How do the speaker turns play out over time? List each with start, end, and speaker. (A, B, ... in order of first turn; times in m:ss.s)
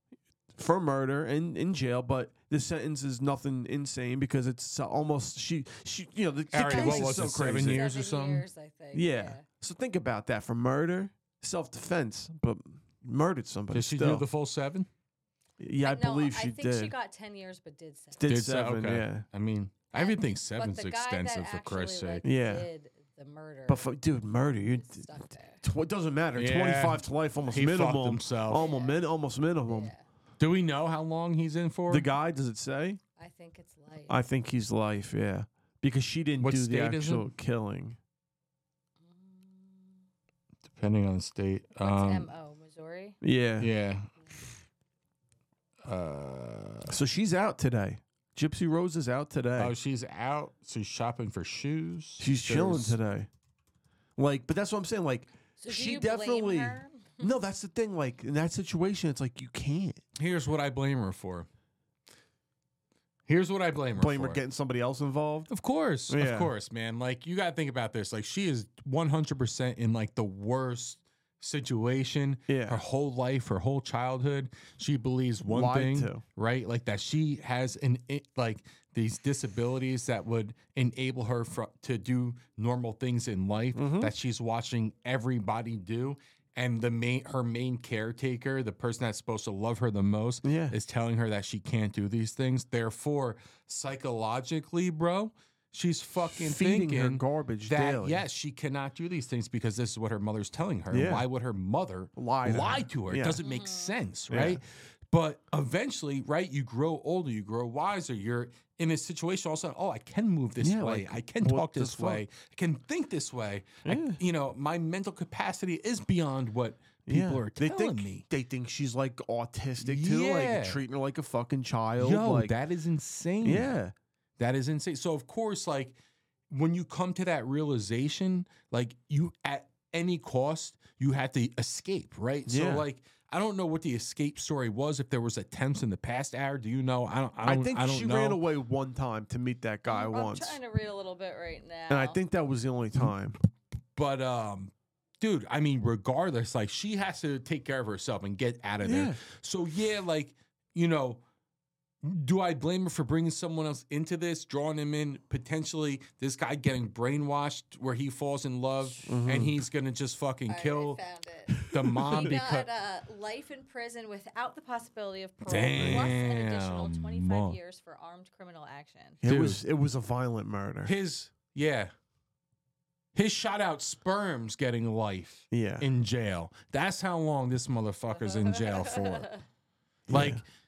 0:00.6-0:07.9 A
0:06.5-0:08.4 B
0:06.6-0:09.4 C
0:08.9-0:14.2 A
0:13.7-0:14.9 B
0:15.6-0:16.9 A
0:15.8-0:18.3 C
0:18.2-0:19.2 A
0:18.2-0:22.2 B
0:19.9-0:23.9 C
0:22.2-0:22.7 A
0:23.7-0:29.9 A
0:24.7-0:25.6 C
0:26.4-0:28.6 B
0:28.5-0:29.0 C
0:29.7-0:30.0 C
0:30.4-0:32.1 B
0:31.9-0:33.0 A
0:33.2-0:34.2 C
0:34.1-0:38.0 A
0:36.4-0:37.3 B
0:39.0-0:40.0 C
0:40.7-0:42.3 B
0:41.8-0:43.2 C
0:43.2-0:43.7 A
0:43.6-0:44.1 B
0:45.8-0:47.0 B
0:46.9-0:49.7 A
0:49.6-0:53.0 B
0:52.2-0:53.3 A
0:54.2-1:00.0 A
0:55.6-0:57.3 C
1:00.2-1:01.5 B
1:03.3-1:04.4 B
1:04.0-1:05.5 A
1:05.5-1:58.2 B
1:06.1-1:06.5 A
1:12.5-1:12.8 A
1:15.4-1:16.2 A
1:23.7-1:24.1 A
1:30.4-1:30.7 A
1:36.3-1:38.2 A
1:40.9-1:41.2 A
1:42.2-1:43.4 A
1:43.4-1:43.9 C
1:44.3-1:44.6 A
1:50.6-1:52.2 A
1:53.8-1:54.2 A
1:57.1-2:02.5 A
1:59.8-2:00.8 B
2:02.0-2:03.7 B
2:03.4-2:03.9 A
2:04.4-2:06.0 B
2:06.5-2:18.4 B
2:12.4-2:12.8 A
2:17.4-2:20.6 A
2:19.9-2:22.2 C
2:21.9-2:23.4 A
2:24.0-2:31.2 B
2:28.8-2:29.2 A
2:32.0-2:41.0 B
2:39.0-2:39.6 A
2:40.5-2:49.2 C
2:41.6-2:42.7 B
2:41.7-2:42.3 A
2:45.4-2:47.6 B
2:45.7-2:46.2 A
2:49.2-2:50.9 A
2:49.2-2:49.6 B
2:50.8-2:51.9 B
2:53.1-2:59.3 B
2:55.5-2:55.9 A
2:58.1-2:59.4 C
3:00.1-3:00.4 A
3:00.1-3:00.4 B